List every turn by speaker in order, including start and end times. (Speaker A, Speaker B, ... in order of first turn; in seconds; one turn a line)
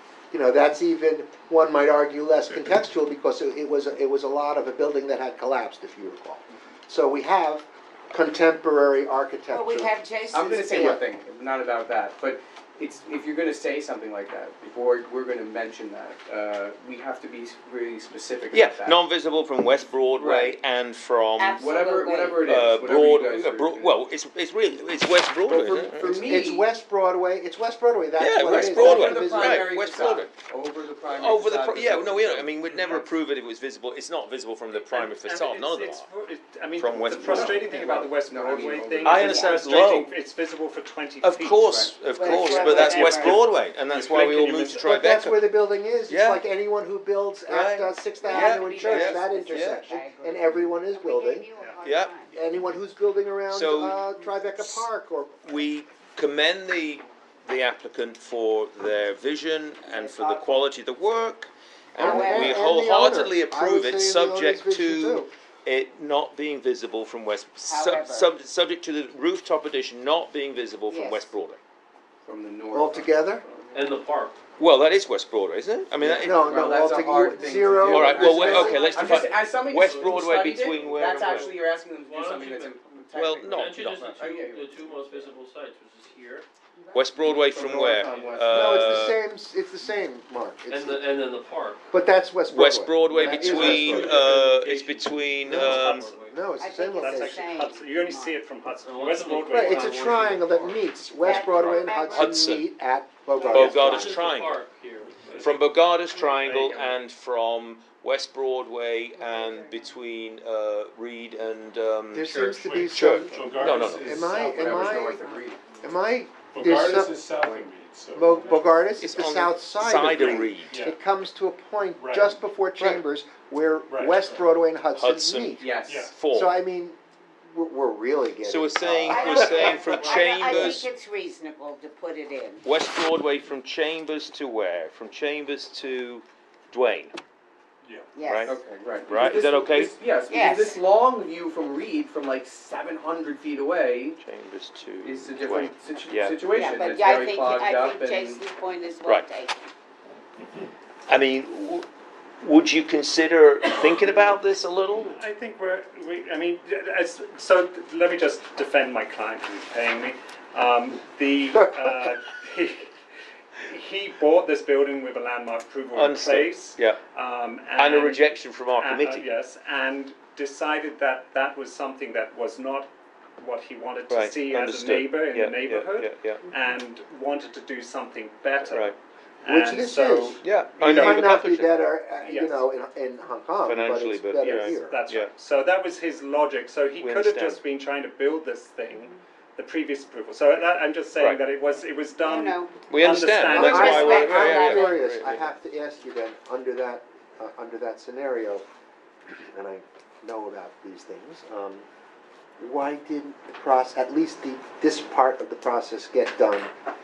Speaker A: 0.3-10.0
Speaker B: 9.5-11.0
Speaker C: 10.3-19.1
Speaker D: 18.5-21.6
Speaker C: 20.1-20.6
Speaker B: 21.4-22.7
Speaker C: 21.6-24.0
Speaker D: 22.4-26.4
Speaker C: 25.4-26.7
Speaker A: 26.0-29.7
Speaker D: 28.2-30.3
Speaker C: 28.4-33.1
Speaker D: 31.1-36.1
Speaker E: 34.7-44.9
Speaker D: 36.8-37.6
Speaker C: 37.1-39.3
Speaker D: 39.0-40.1
Speaker B: 39.2-39.7
Speaker D: 41.2-45.5
Speaker C: 41.7-43.1
Speaker B: 42.1-43.4
Speaker A: 44.8-51.5
Speaker D: 46.1-46.4
Speaker D: 47.5-49.8
Speaker B: 48.2-52.4
Speaker C: 48.4-49.1
Speaker D: 51.8-52.2
Speaker A: 52.3-55.7
Speaker D: 53.5-54.9
Speaker D: 55.4-71.6
Speaker B: 59.9-60.7
Speaker B: 62.0-62.8
Speaker A: 62.0-65.3
Speaker B: 67.6-68.3
Speaker B: 70.9-71.3
Speaker C: 72.2-74.0
Speaker A: 72.7-73.4
Speaker F: 73.7-74.3
Speaker D: 74.6-76.9
Speaker C: 76.0-85.4
Speaker A: 76.0-78.9
Speaker D: 77.8-81.5
Speaker B: 78.5-78.9
Speaker F: 78.8-82.9
Speaker D: 83.1-84.2
Speaker F: 83.4-86.5
Speaker B: 86.8-87.1
Speaker D: 86.9-89.2
Speaker C: 87.1-89.0
Speaker A: 88.5-91.0
Speaker F: 90.7-91.9
Speaker A: 91.9-94.5
Speaker D: 92.5-96.1
Speaker F: 93.1-95.1
Speaker C: 93.2-93.8
Speaker G: 95.0-96.5
Speaker A: 95.4-97.6
Speaker B: 96.6-98.4
Speaker E: 97.0-100.0
Speaker F: 98.8-100.8
Speaker A: 99.5-104.3
Speaker B: 101.2-102.5
Speaker F: 101.4-101.9
Speaker D: 101.9-102.7
Speaker B: 103.5-103.9
Speaker D: 103.5-104.7
Speaker F: 103.6-105.5
Speaker G: 105.1-105.7
Speaker D: 105.3-114.1
Speaker G: 106.3-106.8
Speaker C: 106.5-106.9
Speaker A: 112.1-115.2
Speaker G: 112.2-115.2
Speaker C: 114.2-115.7
Speaker A: 115.8-117.3
Speaker G: 116.5-118.9
Speaker C: 117.4-117.7
Speaker A: 118.1-125.7
Speaker D: 119.0-120.8
Speaker G: 120.7-121.0
Speaker G: 122.0-123.0
Speaker G: 123.9-124.4
Speaker D: 124.9-126.6
Speaker C: 125.6-126.1
Speaker G: 125.8-126.2
Speaker A: 126.2-129.8
Speaker D: 128.4-130.9
Speaker B: 129.0-132.7
Speaker G: 129.8-130.6
Speaker D: 132.6-137.2
Speaker G: 137.8-138.1
Speaker B: 138.1-138.6
Speaker D: 138.2-138.6
Speaker C: 138.5-144.2
Speaker D: 139.1-139.9
Speaker B: 140.3-140.9
Speaker D: 144.2-146.4
Speaker C: 145.0-148.4
Speaker B: 146.5-149.6
Speaker D: 151.1-151.9
Speaker D: 152.4-155.1
Speaker E: 155.0-162.9
Speaker E: 163.6-181.3
Speaker D: 165.9-167.0
Speaker D: 167.8-169.3
Speaker D: 174.1-176.5
Speaker D: 178.6-178.9
Speaker A: 179.4-185.0
Speaker D: 180.4-181.8
Speaker E: 182.2-182.7
Speaker D: 183.6-185.3
Speaker E: 184.4-194.8
Speaker D: 187.0-187.6
Speaker D: 191.2-191.4
Speaker B: 192.2-192.8
Speaker D: 192.9-195.4
Speaker B: 193.5-195.0
Speaker A: 193.5-198.6
Speaker A: 199.5-201.8
Speaker A: 202.6-206.7